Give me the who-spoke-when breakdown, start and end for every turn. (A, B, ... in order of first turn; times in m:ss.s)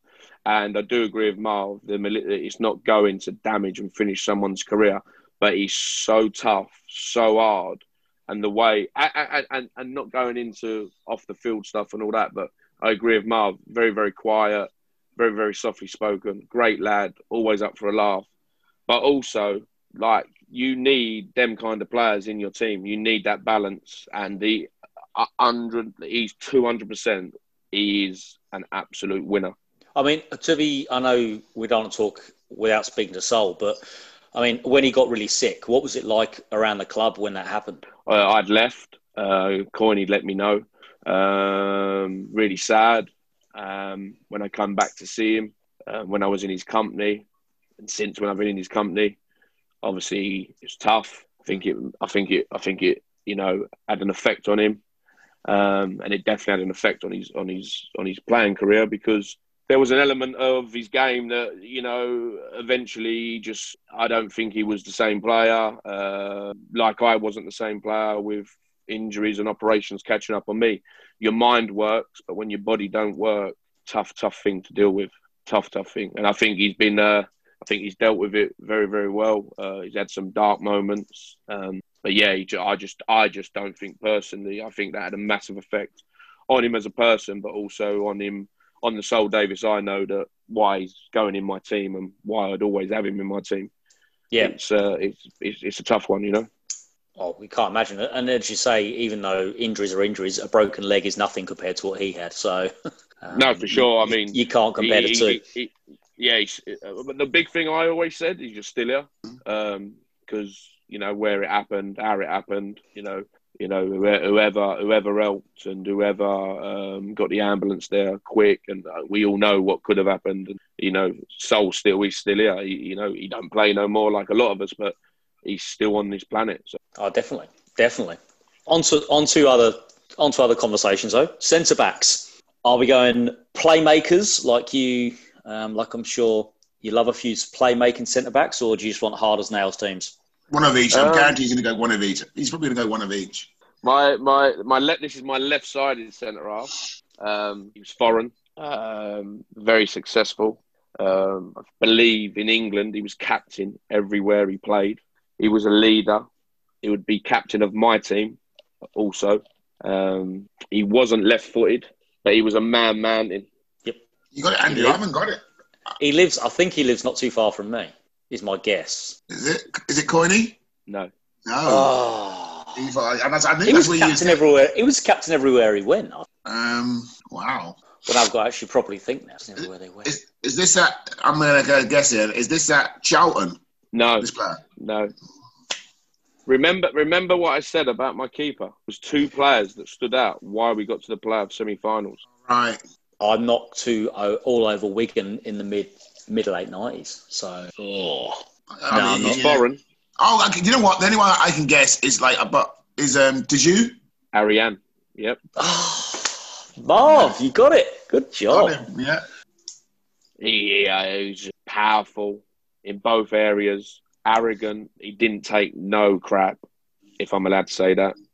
0:00.4-0:18.2 A
0:18.9-0:29.5 A
0:30.0-0:33.8 B
0:34.3-0:37.8 B
0:38.0-0:47.2 A
0:47.8-0:49.2 A
0:49.8-0:54.8 A
0:55.5-1:33.7 A
1:34.4-1:36.5 A
1:37.2-1:45.4 B
1:43.3-2:06.8 A
2:07.0-2:20.1 B
2:20.5-2:23.5 C
2:20.9-2:21.3 A
2:23.8-2:36.2 A
2:36.8-2:38.4 A
2:38.9-2:43.5 A
2:44.3-2:45.4 C
2:44.7-2:45.0 B
2:46.0-2:49.2 B
2:49.3-2:50.6 C
2:51.4-2:51.9 C
2:51.6-2:52.8 B
2:52.7-2:54.4 C
2:53.7-2:56.3 B
2:56.4-2:57.8 C
2:58.0-3:00.1 B
2:59.6-3:03.6 C
3:03.9-3:05.1 A
3:04.2-3:04.6 C
3:06.4-3:12.2 A
3:12.4-3:12.8 C
3:13.2-3:19.4 B
3:18.8-3:19.6 C
3:19.2-3:19.8 A
3:20.2-3:23.9 C
3:24.3-3:25.4 A
3:25.6-3:28.8 B
3:27.0-3:27.4 C
3:28.5-3:29.2 C
3:30.4-3:36.6 A
3:37.2-3:38.2 A